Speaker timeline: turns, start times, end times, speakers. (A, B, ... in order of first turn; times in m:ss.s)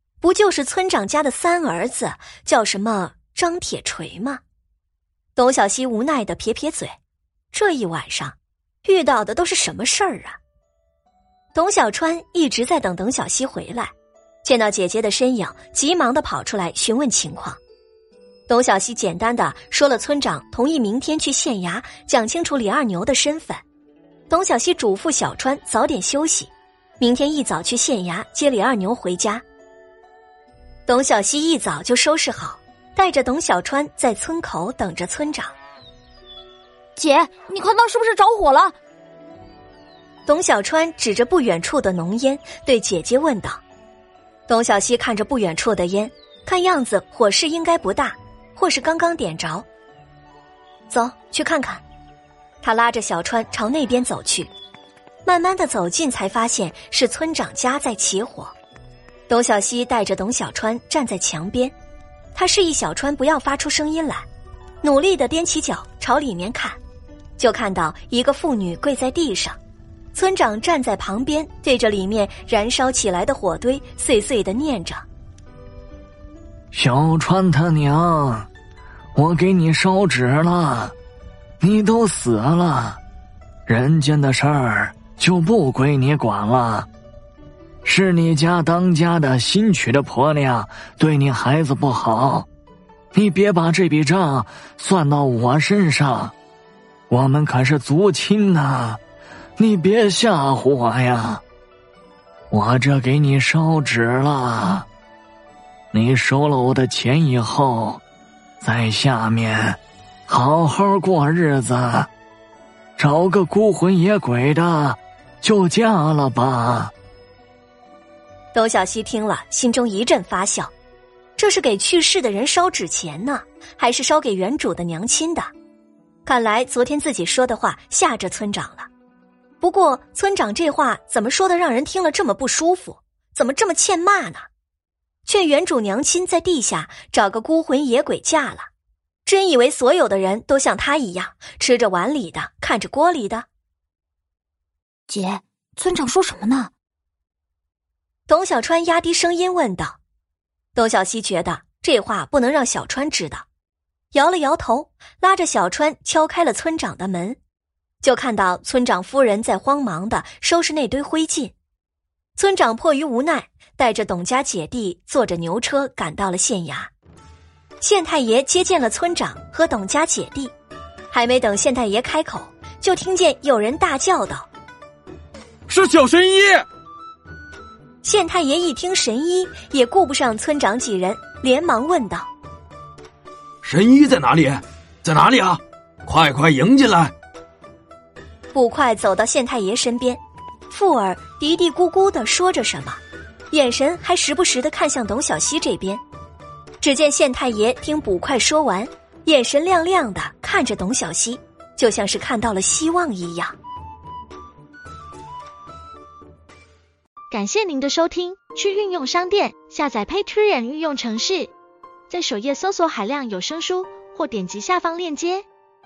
0:00.2-0:04.4 A
0:05.4-0:07.0 A
0:07.5-0:10.4 A
0:11.5-0:13.9 A
0:14.4-0:17.6 A
0:18.5-0:23.6 A
0:24.3-0:29.4 A
0:30.9-0:35.5 A
0:37.0-0:38.7 B
0:40.3-0:43.6 A
0:44.5-0:49.7 A
0:50.9-0:51.8 A
0:52.6-0:54.5 A
0:55.2-0:58.5 A
0:59.3-1:01.7 A
1:02.4-1:04.2 A
1:04.8-1:06.8 A
1:07.4-1:09.6 A
1:10.1-1:15.0 A
1:16.7-1:18.5 C
1:19.2-1:20.9 C
1:21.6-1:23.0 C
1:23.7-1:26.9 C
1:27.8-1:32.5 C
1:33.1-1:36.3 C
1:37.1-1:39.0 C
1:39.6-1:41.4 C
1:42.5-1:44.9 C
1:45.9-1:48.0 C
1:48.6-1:52.1 C
1:53.0-1:56.9 C
1:58.5-2:00.7 A
2:01.4-2:05.5 A
2:06.3-2:08.9 A
2:09.6-2:14.5 A
2:15.3-2:18.7 A
2:19.3-2:23.5 A
2:25.1-2:26.7 B
2:28.3-2:30.0 A
2:30.8-2:33.5 A
2:34.1-2:37.4 A
2:38.0-2:41.6 A
2:42.4-2:46.9 A
2:47.8-2:50.5 A
2:51.1-2:54.5 A
2:55.7-2:56.7 D
2:58.0-3:02.3 A
3:03.6-3:07.1 D
3:08.5-3:16.0 A
3:16.8-3:23.6 A
3:27.3-3:31.5 E
3:32.1-3:35.5 E